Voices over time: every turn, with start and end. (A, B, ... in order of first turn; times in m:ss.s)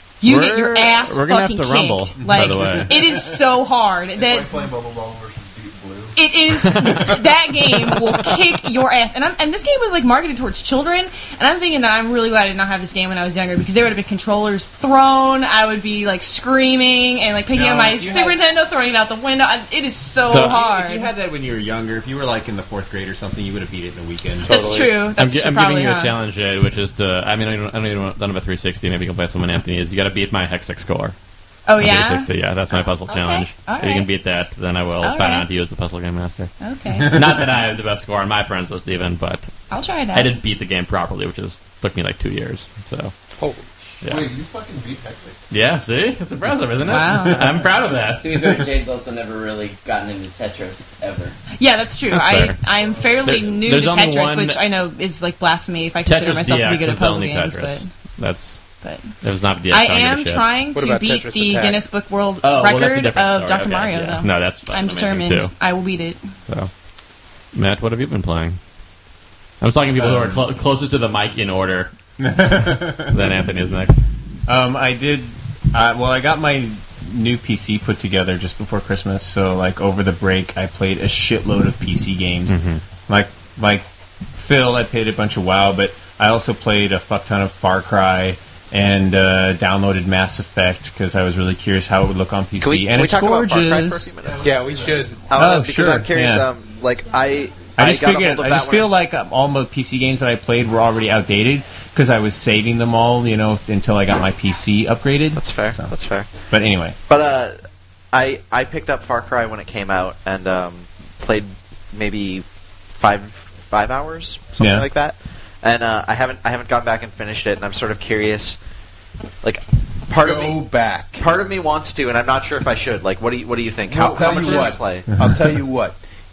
0:00.2-0:04.5 A
0:00.2-0:03.0 B
0:02.2-0:03.4 C
0:04.1-0:06.2 D
0:06.2-0:21.1 A
0:17.5-0:18.4 C
0:20.2-0:20.6 B
0:20.3-0:24.7 C
0:24.4-0:26.2 A
0:24.4-0:31.2 B
0:31.7-0:34.1 A
0:31.7-0:36.5 B
0:35.0-0:35.5 A
0:36.6-0:37.2 A
0:37.0-0:39.5 B
0:39.7-0:40.4 A
0:40.1-0:43.2 B
0:43.4-0:43.6 E
0:44.0-0:44.3 B
0:44.0-0:45.4 D
0:45.5-0:48.7 B
0:46.8-0:47.6 A
0:47.9-0:51.4 F
0:51.6-0:57.9 A
0:52.1-0:52.6 B
0:53.2-0:54.6 B
0:56.0-1:00.5 B
0:58.8-1:06.3 A
1:00.7-1:01.8 E
1:02.4-1:05.6 B
1:07.5-1:08.6 B
1:09.6-1:11.9 B
1:09.9-1:10.4 C
1:12.2-1:13.1 C
1:13.0-1:14.0 B
1:14.5-1:34.3 C
1:22.5-1:22.8 B
1:32.6-1:38.9 G
1:34.3-1:35.4 E
1:35.3-1:36.5 C
1:37.8-1:45.9 C
1:45.4-1:58.6 G
1:46.5-1:47.0 C
1:54.6-1:54.9 C
1:59.4-2:00.6 G
2:00.1-2:01.3 E
2:01.2-2:05.1 G
2:03.9-2:04.9 D
2:04.0-2:06.0 E